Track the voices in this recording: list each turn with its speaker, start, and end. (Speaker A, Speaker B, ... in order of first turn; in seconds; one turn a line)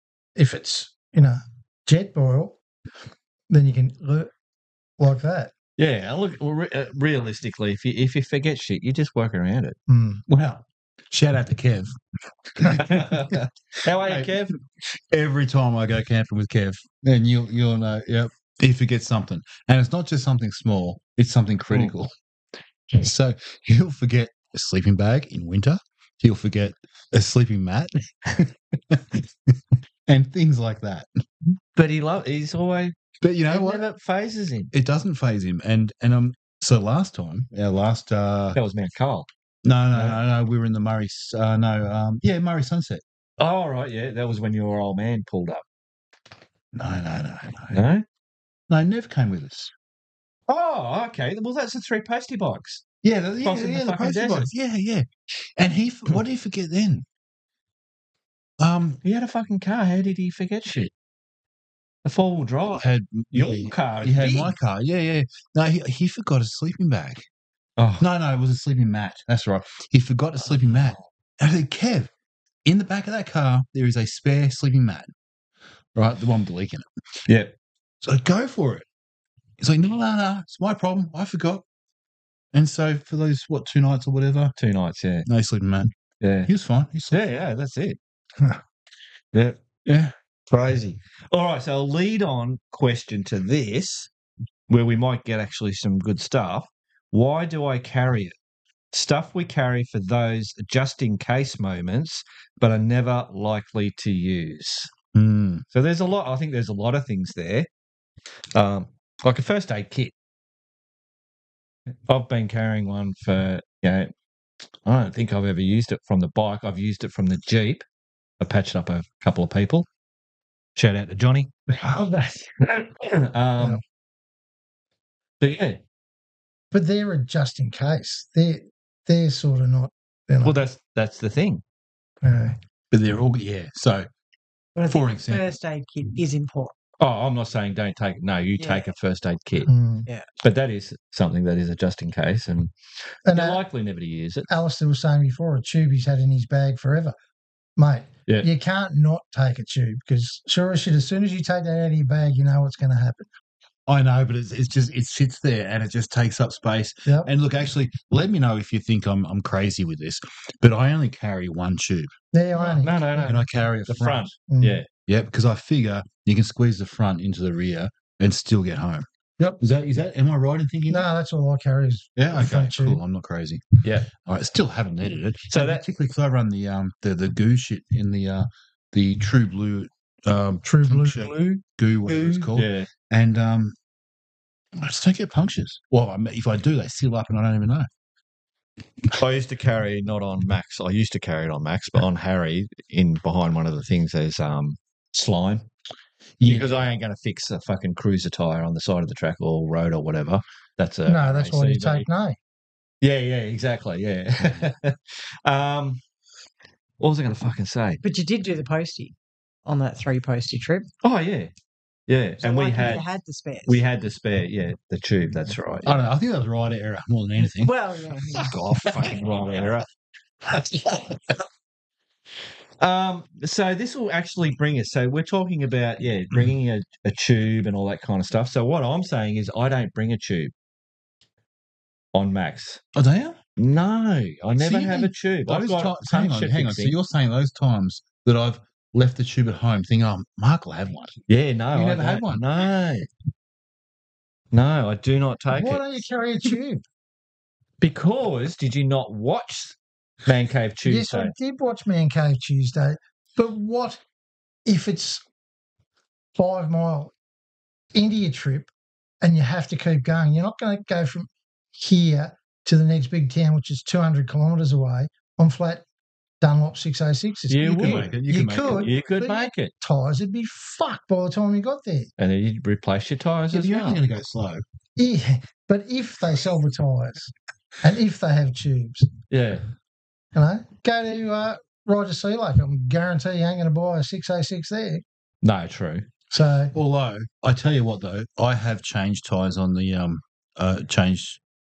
Speaker A: 0.3-2.6
Speaker A: 3.5-4.3
Speaker A: 5.0-5.5
Speaker B: 5.8-9.8
Speaker A: 9.9-10.2
Speaker C: 10.3-12.0
Speaker C: 12.5-22.1
Speaker B: 12.6-14.6
Speaker C: 22.9-31.2
Speaker B: 31.8-32.9
Speaker C: 33.2-33.8
Speaker B: 33.5-34.7
Speaker C: 34.7-38.6
Speaker B: 38.5-39.3
Speaker C: 39.6-43.0
Speaker B: 39.9-40.2
Speaker B: 43.4-45.6
Speaker C: 46.7-47.8
Speaker B: 47.7-48.0
Speaker C: 48.7-49.7
Speaker B: 50.5-52.8
Speaker C: 53.0-57.0
Speaker B: 53.4-54.5
Speaker C: 58.6-59.0
Speaker B: 59.0-60.9
Speaker B: 62.0-64.5
Speaker C: 62.7-67.2
Speaker B: 67.8-68.0
Speaker C: 68.0-72.1
Speaker B: 70.6-70.9
Speaker C: 72.6-75.1
Speaker C: 75.9-76.9
Speaker B: 77.3-77.5
Speaker C: 78.0-78.8
Speaker C: 79.6-81.6
Speaker C: 82.5-84.5
Speaker B: 84.6-85.2
Speaker C: 85.2-85.9
Speaker B: 86.2-86.5
Speaker C: 86.5-87.2
Speaker B: 87.1-88.0
Speaker B: 89.3-89.8
Speaker C: 89.8-90.1
Speaker B: 90.5-94.1
Speaker B: 94.7-98.3
Speaker B: 98.9-104.9
Speaker C: 105.1-105.6
Speaker B: 105.7-107.7
Speaker B: 108.5-110.1
Speaker B: 112.1-114.1
Speaker B: 114.8-117.8
Speaker B: 118.4-119.9
Speaker B: 120.8-123.8
Speaker B: 125.4-125.8
Speaker A: 126.7-130.6
Speaker B: 130.4-131.6
Speaker A: 132.2-132.6
Speaker C: 132.9-134.1
Speaker D: 134.8-136.7
Speaker C: 134.8-135.5
Speaker B: 137.0-139.7
Speaker D: 138.6-138.9
Speaker A: 139.7-140.1
Speaker B: 140.4-142.7
Speaker A: 143.2-143.6
Speaker B: 143.3-144.5
Speaker A: 144.5-147.1
Speaker A: 147.8-153.3
Speaker C: 153.9-162.1
Speaker A: 157.0-157.3
Speaker A: 162.3-163.4
Speaker B: 162.6-164.9
Speaker C: 163.2-164.3
Speaker A: 164.5-164.8
Speaker C: 165.1-171.1
Speaker A: 170.9-173.0
Speaker C: 172.2-183.8
Speaker B: 173.8-174.1
Speaker B: 175.5-175.8
Speaker A: 180.6-181.6
Speaker B: 182.1-182.9
Speaker C: 184.7-187.9
Speaker B: 189.1-195.7
Speaker C: 196.4-196.7
Speaker B: 196.4-202.1
Speaker A: 201.1-202.4
Speaker B: 203.0-206.0
Speaker B: 207.0-208.0
Speaker D: 208.0-209.1
Speaker D: 209.6-210.9
Speaker B: 211.0-211.5
Speaker B: 212.1-213.0
Speaker D: 212.4-213.8
Speaker B: 213.7-215.9
Speaker C: 215.8-217.7
Speaker D: 217.5-218.6
Speaker C: 218.3-219.2
Speaker B: 218.5-219.9
Speaker B: 220.5-220.9
Speaker B: 222.8-230.5
Speaker B: 232.1-232.8
Speaker C: 232.9-233.4
Speaker B: 233.6-236.9
Speaker C: 234.6-241.2
Speaker B: 241.3-243.1
Speaker C: 241.7-242.4
Speaker B: 244.5-245.9
Speaker A: 245.5-246.8
Speaker B: 247.8-251.3
Speaker A: 250.8-254.0
Speaker A: 254.6-255.2
Speaker A: 256.4-257.1
Speaker A: 257.9-258.7
Speaker A: 259.2-265.8
Speaker A: 266.4-272.1
Speaker B: 267.5-269.7
Speaker C: 267.8-268.9
Speaker B: 272.2-274.0
Speaker C: 273.5-274.6
Speaker A: 275.0-279.1
Speaker B: 279.3-279.6
Speaker A: 280.3-285.0
Speaker B: 285.4-286.1
Speaker A: 286.3-286.7
Speaker C: 286.7-291.4